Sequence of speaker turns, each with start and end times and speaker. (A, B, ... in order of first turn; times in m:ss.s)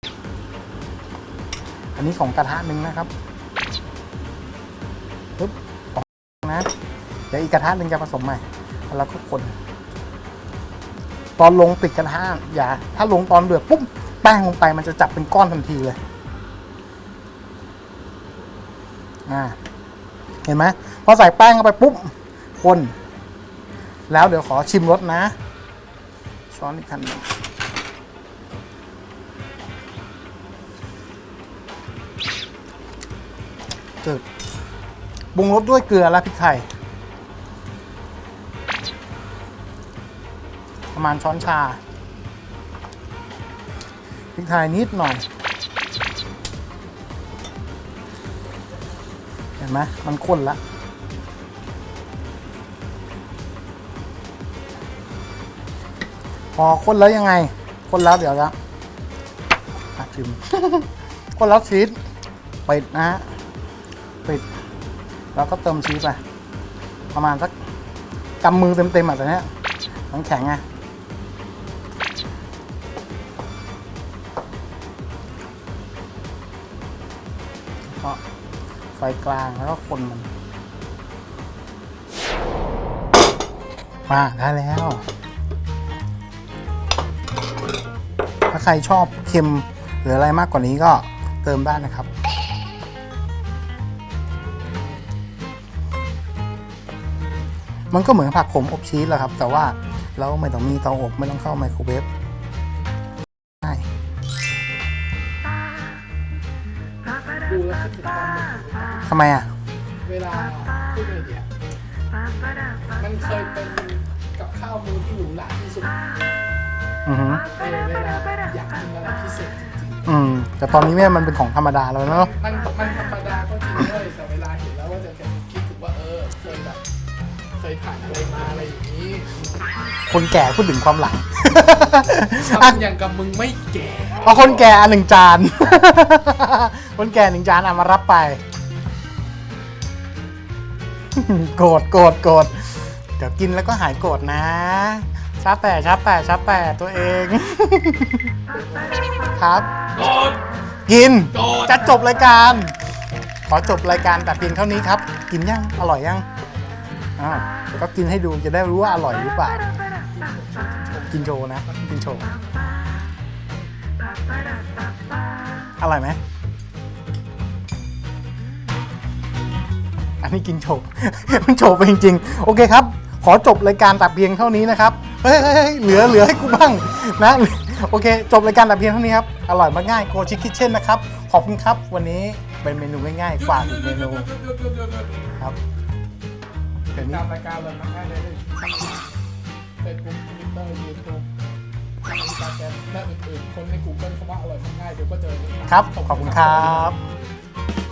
0:02.0-0:03.1 A
0:05.4-0:06.7 A
0:07.3-0:09.5 A
0:11.4-0:16.0 A
0:19.3-0:19.6 A
0:20.4-0:22.9 A
0:24.1-0:25.4 A
0:26.5-0:27.2 A
0:35.4-0:36.7 A
0:40.9-0:41.8 A
0:44.4-0:45.2 A
0:49.6-0:50.6 A
0:56.6-0:58.5 A
1:00.0-1:02.0 A
1:02.7-1:03.2 A
1:05.3-1:06.2 A
1:07.1-1:07.5 A
1:08.4-1:09.5 A
1:10.1-1:10.6 A
1:17.9-1:18.2 A
1:19.0-1:20.3 A
1:24.1-1:25.0 A
1:28.5-1:32.1 A
1:37.9-1:42.1 A
1:47.4-1:49.1 B
1:49.1-1:49.5 A
1:50.0-1:51.5 B
1:53.0-1:56.0 B
1:57.1-1:57.4 A
1:57.5-2:00.0 B
2:00.1-2:02.3 A
2:02.1-2:06.8 B
2:07.6-2:09.3 B
2:10.1-2:12.8 A
2:12.3-2:14.4 B
2:14.2-2:18.4 A
2:21.1-2:28.3 A
2:29.4-2:29.9 A
2:30.0-2:30.4 B
2:30.9-2:32.8 A
2:31.3-2:31.7 B
2:33.5-2:36.2 A
2:37.2-2:39.7 A
2:40.1-2:41.3 B
2:41.1-2:42.3 A
2:45.8-2:46.2 A
2:50.2-3:04.3 A
3:03.4-3:05.3 B
3:06.9-3:07.2 A
3:07.0-3:09.1 B
3:09.8-3:11.3 B
3:12.0-3:16.9 B
3:15.7-3:17.0 A